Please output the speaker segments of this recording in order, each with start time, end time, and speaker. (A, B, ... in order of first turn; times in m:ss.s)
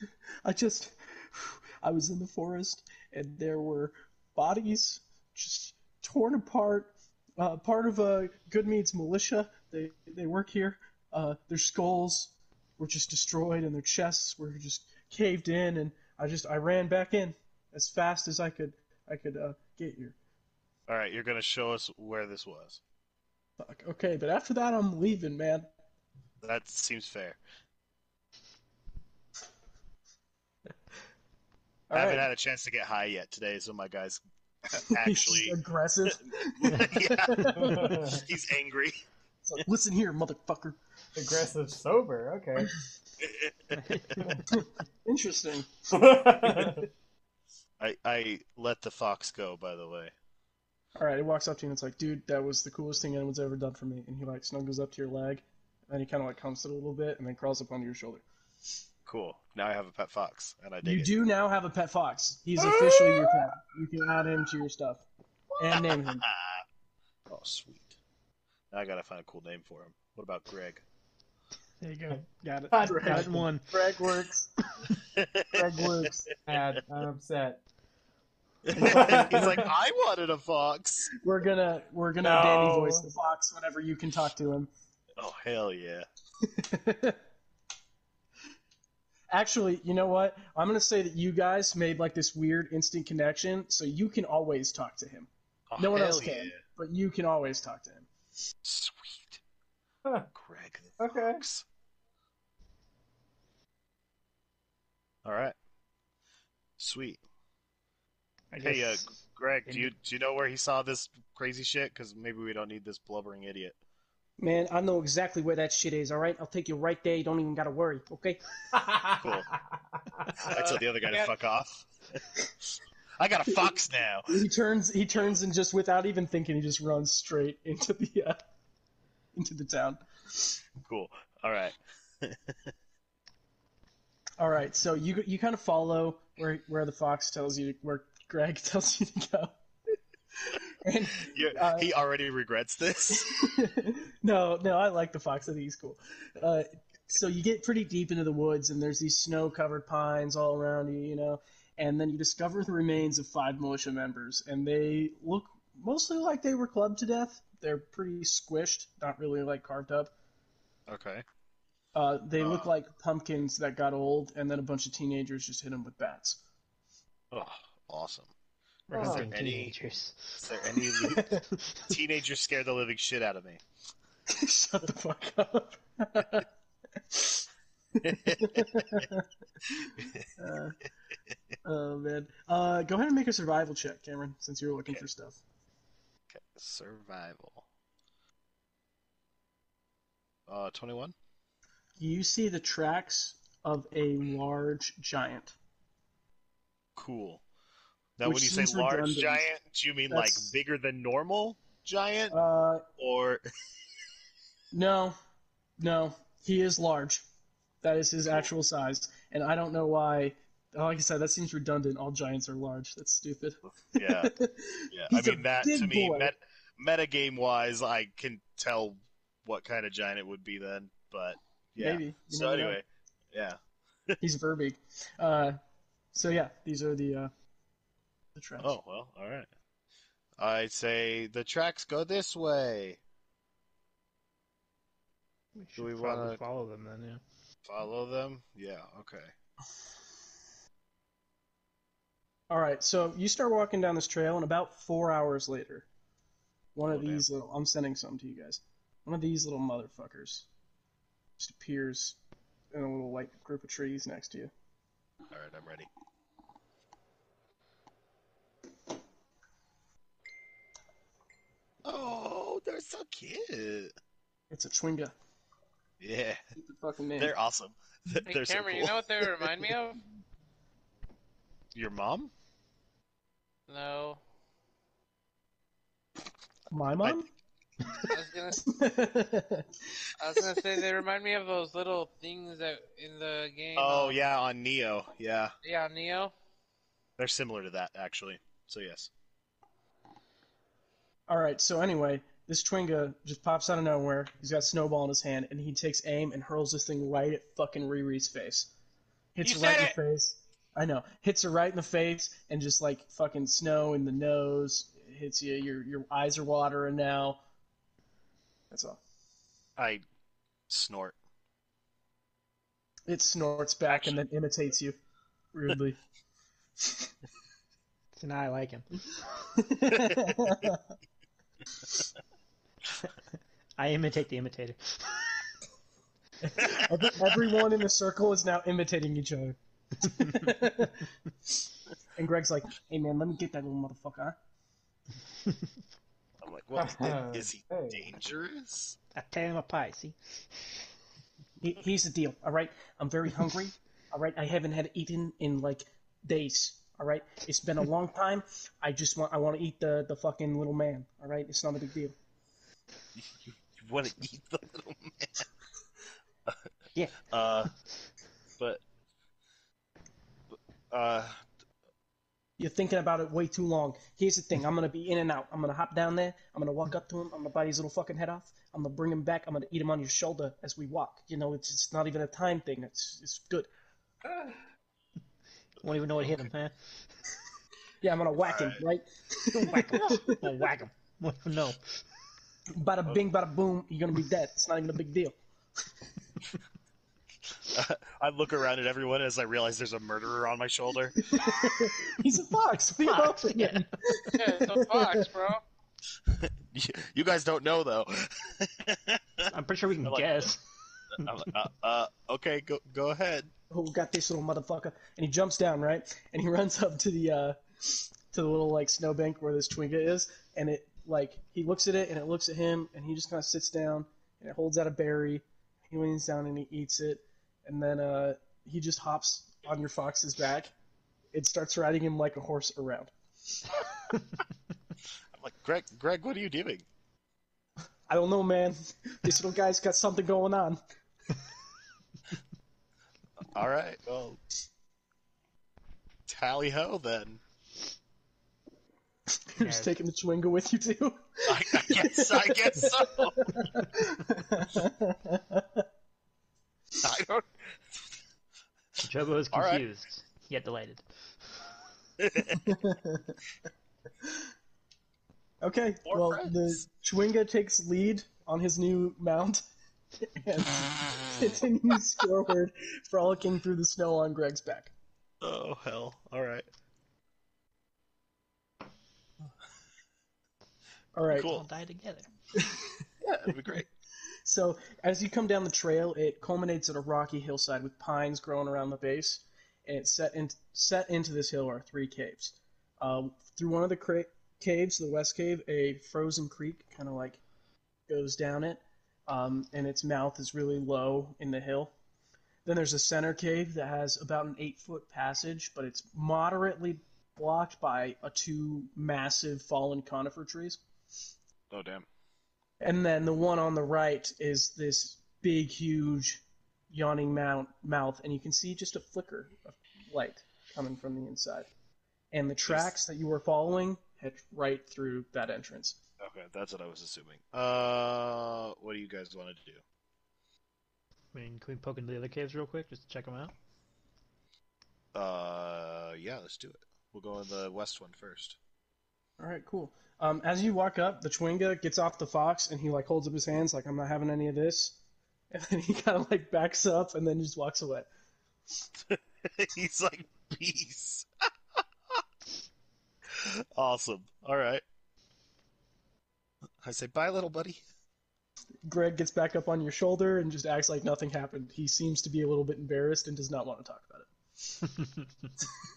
0:00.4-0:20.2 A
0:20.9-0:22.8 B
0:23.6-0:25.7 A
0:26.4-0:27.4 B
0:31.9-0:32.3 A
0:31.9-0:34.2 B
0:34.7-0:38.0 A
0:34.8-0:35.6 B
0:36.6-0:39.0 B
0:37.7-0:38.2 C
0:39.4-0:40.8 A
0:41.2-0:42.7 C
0:43.2-0:43.7 B
0:43.8-0:44.2 D
0:44.5-0:46.8 A
0:45.9-0:46.8 C
0:47.8-0:50.1 B
0:51.0-0:58.2 A
0:59.1-1:01.1 B
1:00.8-1:05.0 A
1:02.6-1:03.5 C
1:05.6-1:06.2 A
1:06.3-1:06.6 B
1:07.3-1:08.0 B
1:08.7-1:10.8 B
1:11.8-1:14.5 A
1:12.7-1:13.4 C
1:13.0-1:13.8 D
1:15.1-1:15.6 B
1:15.5-1:16.3 A
1:16.5-1:17.6 C
1:16.5-1:16.8 B
1:18.7-1:21.1 B
1:18.8-1:19.6 A
1:18.9-1:19.6 C
1:21.2-1:24.7 A
1:22.2-1:23.1 C
1:25.2-1:26.1 B
1:26.4-1:27.2 A
1:29.3-1:38.1 A
1:35.7-1:36.6 B
1:38.6-1:39.4 B
1:40.3-1:41.6 B
1:41.0-1:41.4 C
1:45.2-1:45.6 B
1:46.8-1:47.2 B
1:48.5-1:49.9 D
1:48.6-1:53.8 B
1:54.4-1:58.4 A
1:58.8-1:59.3 C
1:59.2-1:59.5 B
2:00.4-2:02.4 B
2:00.5-2:01.3 E
2:03.2-2:04.3 B
2:04.3-2:08.4 A
2:09.4-2:10.6 A
2:10.9-2:12.5 B
2:14.4-2:19.5 A
2:20.5-2:21.9 A
2:21.3-2:23.3 B
2:23.1-2:40.1 A
2:40.9-2:41.2 B
2:41.9-2:46.4 A
2:42.4-2:42.7 B
2:47.3-2:48.3 B
2:48.9-2:50.4 D
2:48.9-2:49.8 B
2:49.0-2:49.3 C
2:50.4-2:51.4 B
2:51.0-2:51.9 D
2:51.1-2:51.4 A
2:51.9-2:53.6 B
2:54.3-2:56.5 A
2:57.1-2:57.4 A
2:58.0-2:59.3 A
2:58.0-2:59.0 B
3:00.0-3:00.3 B
3:00.4-3:00.8 A
3:01.6-3:05.4 A
3:06.3-3:07.7 B
3:10.5-3:11.2 B
3:12.0-3:15.6 A
3:17.0-3:17.4 B
3:18.2-3:22.4 B
3:18.2-3:19.5 A
3:20.1-3:20.5 A
3:22.3-3:22.8 A
3:23.0-3:23.4 B
3:24.7-3:25.2 A
3:25.8-3:27.2 A
3:27.8-3:36.3 A
3:33.7-3:34.3 B
3:34.9-3:44.2 B
3:41.8-3:42.8 A
3:44.2-3:45.6 A
3:46.1-3:47.3 A
3:48.4-3:48.8 A
3:48.6-3:49.5 B
3:50.4-3:53.0 B
3:55.6-3:57.2 D
3:55.8-3:56.4 B
3:57.7-3:59.3 B
4:02.5-4:05.9 A
4:06.8-4:10.5 A
4:06.9-4:07.2 B
4:11.4-4:12.2 A
4:12.7-4:14.5 A
4:15.3-4:15.9 B
4:21.8-4:23.9 B
4:24.5-4:25.1 A
4:26.0-4:26.4 B
4:26.6-4:27.3 A
4:27.2-4:29.5 B
4:28.3-4:30.0 E
4:31.7-4:32.3 B
4:33.7-4:34.2 E
4:36.7-4:37.3 A
4:38.1-4:38.6 E
4:38.6-4:39.8 A
4:40.2-4:44.2 E
4:43.8-4:45.5 B
4:45.6-4:46.3 E
4:47.2-4:49.1 B
4:51.3-4:58.7 A
4:59.4-5:07.4 A
4:59.4-5:00.0 E
5:08.7-5:09.0 A
5:09.8-5:10.0 B
5:10.7-5:11.2 B
5:13.1-5:15.0 A
5:13.9-5:14.2 B
5:15.5-5:16.0 A
5:18.2-5:18.9 D
5:19.6-5:20.8 A
5:20.2-5:20.7 B
5:23.8-5:25.2 D
5:26.4-5:31.1 A
5:32.2-5:34.4 A
5:36.4-5:39.0 B
5:36.8-5:38.0 C
5:39.2-5:40.2 D
5:41.6-5:52.2 A
5:53.8-5:55.5 B
5:57.2-5:57.7 B
6:00.5-6:01.4 B
6:02.6-6:13.7 A
6:15.8-6:16.8 D
6:18.0-6:20.4 A
6:18.4-6:18.8 B
6:19.6-6:21.8 D
6:22.8-6:25.4 A
6:27.6-6:31.2 B
6:31.2-6:35.3 A
6:33.0-6:33.9 D
6:34.3-6:35.6 E
6:36.3-6:39.5 B
6:39.5-6:40.6 D
6:40.0-6:40.5 B
6:41.2-6:43.5 B
6:43.7-7:00.7 A
7:01.3-7:03.1 A
7:05.4-7:06.9 B
7:08.1-7:10.8 A
7:13.5-7:14.4 B
7:16.3-7:17.4 B
7:19.5-7:25.8 A
7:19.6-7:19.9 D
7:21.5-7:23.6 B
7:27.0-7:27.4 B
7:29.0-7:31.0 D
7:29.5-7:29.8 B
7:32.2-7:32.7 B
7:32.5-7:33.4 A
7:35.6-7:39.6 A
7:36.1-7:36.8 B
7:40.2-7:44.9 A
7:45.4-7:46.7 B
7:51.2-7:51.5 A
7:51.3-7:51.7 B
7:51.4-7:52.3 D
7:52.6-7:53.8 A
7:53.5-7:53.9 B
7:54.4-8:07.4 A
8:08.1-8:11.9 A
8:12.6-8:20.8 A
8:21.7-8:22.1 B
8:22.8-8:31.7 A
8:32.3-8:36.0 A
8:36.2-8:39.8 B
8:41.3-8:43.5 D
8:45.1-8:48.6 B
8:49.4-8:55.0 A
8:55.5-8:58.1 A
8:59.0-9:01.3 B
9:03.3-9:04.8 B
9:06.8-9:07.8 B
9:08.9-9:14.3 A